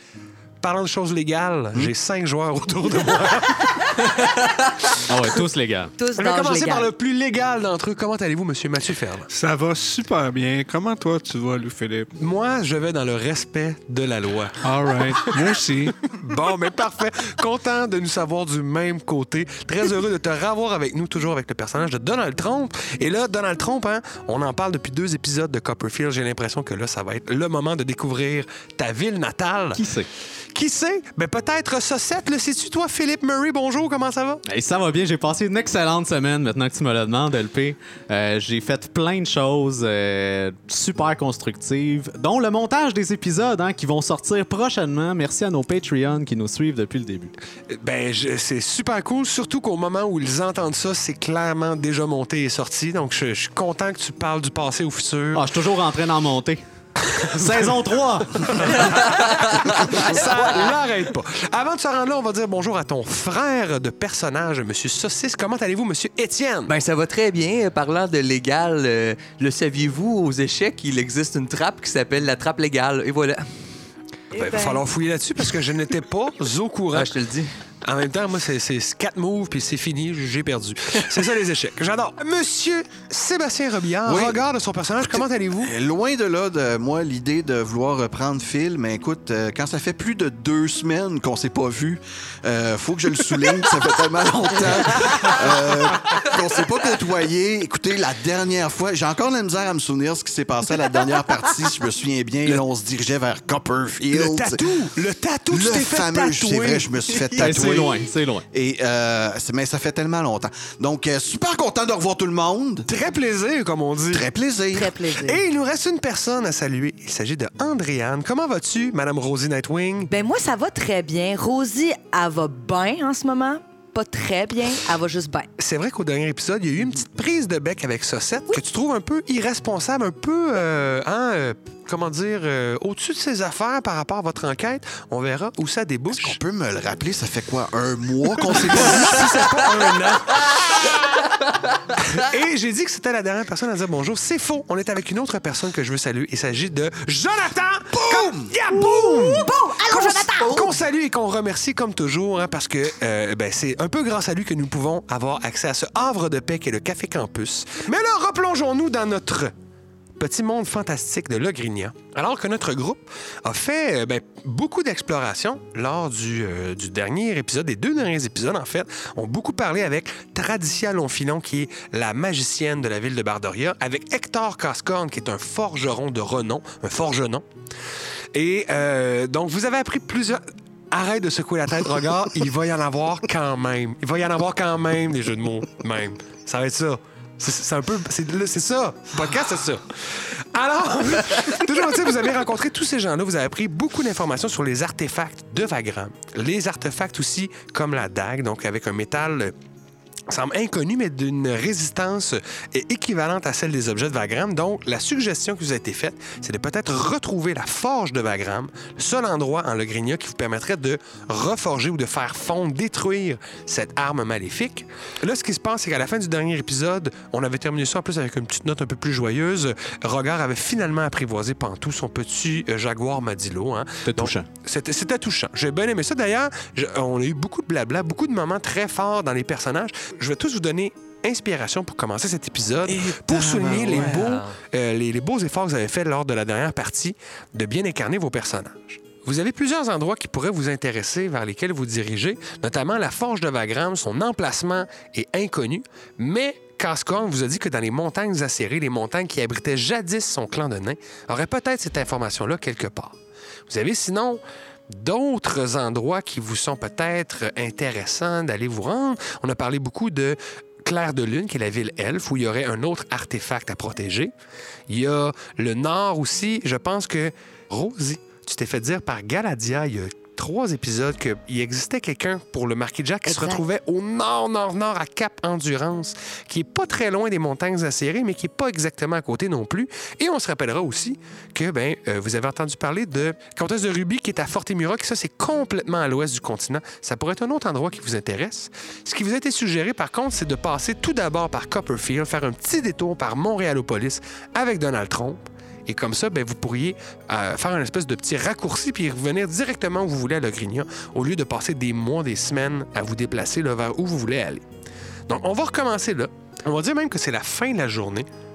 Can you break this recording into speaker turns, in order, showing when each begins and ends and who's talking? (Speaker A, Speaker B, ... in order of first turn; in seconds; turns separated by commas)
Speaker A: 0.6-4.2, Speaker B: 5.0-6.0, Speaker C: 6.0-6.9, Speaker A: 6.2-9.3, Speaker D: 9.3-12.1, Speaker A: 12.2-14.6, Speaker D: 14.6-16.0, Speaker A: 16.1-29.8, Speaker B: 29.7-30.1, Speaker A: 30.5-34.4, Speaker B: 34.5-47.4, Speaker A: 47.7-55.5, Speaker B: 55.3-59.0, Speaker A: 57.0-57.7, Speaker A: 58.4-66.7, Speaker E: 59.1-60.2, Speaker C: 60.2-60.6, Speaker E: 66.7-73.8, Speaker C: 74.3-74.8, Speaker A: 74.4-77.2, Speaker E: 76.9-77.5, Speaker A: 77.8-85.7, Speaker F: 84.0-84.4, Speaker F: 85.0-104.6, Speaker A: 104.1-107.9, Speaker F: 105.5-108.0, Speaker B: 107.4-108.5, Speaker F: 108.5-112.9, Speaker A: 112.9-114.3, Speaker F: 114.1-115.0, Speaker C: 114.7-115.4, Speaker A: 115.2-120.1, Speaker C: 120.1-125.5, Speaker A: 125.6-136.4, Speaker F: 136.1-139.6, Speaker A: 138.5-141.3, Speaker A: 141.9-159.5, Speaker F: 147.9-148.6, Speaker C: 148.7-150.6, Speaker A: 160.2-177.4, Speaker A: 178.3-199.6, Speaker A: 200.3-264.3, Speaker B: 224.1-224.5, Speaker E: 233.1-234.6, Speaker A: 264.9-304.7, Speaker C: 273.3-273.6, Speaker A: 305.3-308.3